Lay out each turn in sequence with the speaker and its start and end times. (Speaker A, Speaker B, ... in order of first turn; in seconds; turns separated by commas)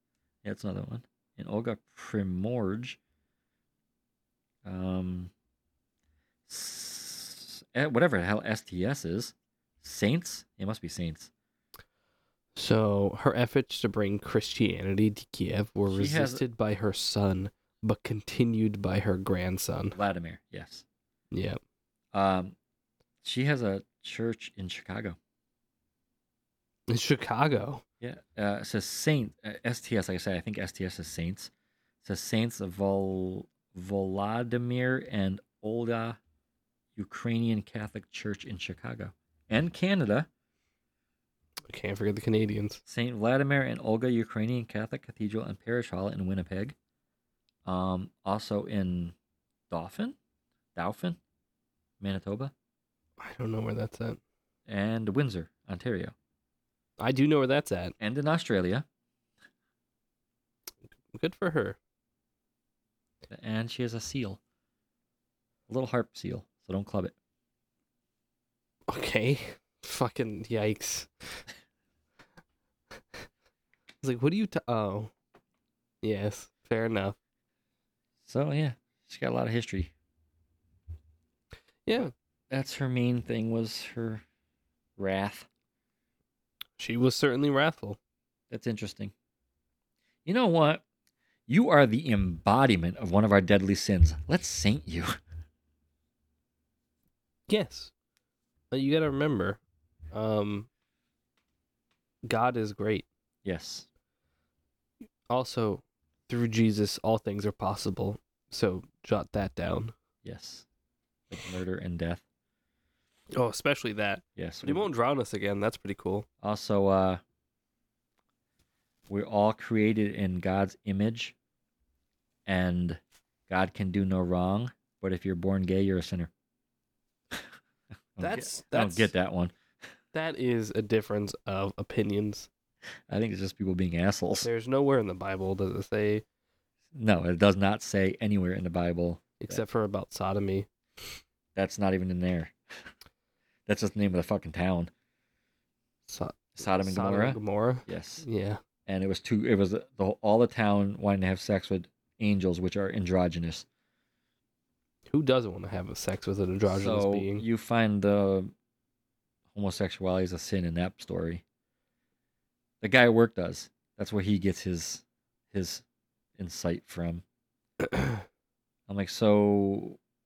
Speaker A: 0.4-3.0, Speaker A: 4.6-5.3, Speaker A: 6.5-11.3, Speaker B: 12.6-20.0, Speaker A: 15.9-16.4, Speaker A: 19.9-20.9, Speaker B: 21.3-21.6, Speaker A: 22.1-22.6, Speaker A: 23.2-25.2, Speaker B: 26.9-27.8, Speaker A: 28.0-31.5, Speaker A: 32.0-36.2, Speaker A: 37.0-40.3, Speaker B: 41.7-42.8, Speaker A: 42.9-46.8, Speaker A: 47.7-49.1, Speaker A: 49.7-50.2, Speaker A: 50.8-51.2, Speaker A: 52.0-52.5, Speaker B: 53.2-54.2, Speaker A: 54.7-56.1, Speaker B: 57.0-58.0, Speaker A: 58.0-58.9, Speaker B: 61.1-61.8, Speaker A: 63.3-64.4, Speaker A: 65.7-67.2, Speaker B: 68.9-71.4, Speaker B: 74.0-75.1, Speaker B: 76.0-77.2, Speaker A: 78.2-79.9, Speaker B: 81.9-82.1, Speaker A: 82.5-84.2, Speaker A: 85.0-85.5, Speaker B: 86.8-88.0, Speaker A: 88.5-89.1, Speaker A: 90.3-90.8, Speaker A: 91.5-95.1, Speaker B: 97.5-97.9, Speaker B: 98.7-99.6, Speaker B: 100.1-100.7, Speaker B: 102.3-103.1, Speaker A: 103.5-103.9, Speaker B: 105.3-110.0, Speaker A: 110.2-110.7, Speaker A: 111.3-112.2, Speaker B: 113.3-116.3, Speaker A: 114.4-114.9, Speaker A: 116.4-117.2, Speaker A: 119.1-121.3, Speaker A: 122.5-126.3, Speaker A: 128.2-129.5, Speaker B: 128.2-129.1, Speaker B: 130.1-132.5, Speaker A: 133.1-134.5, Speaker B: 134.4-136.2, Speaker A: 136.9-139.6, Speaker B: 139.4-141.1, Speaker A: 141.6-142.9, Speaker A: 143.7-144.9, Speaker B: 146.1-148.6, Speaker A: 146.6-148.3, Speaker A: 148.9-153.7, Speaker B: 155.1-157.4, Speaker A: 156.7-158.5, Speaker A: 159.5-161.4, Speaker A: 162.8-165.8, Speaker A: 166.4-167.2, Speaker A: 168.9-170.0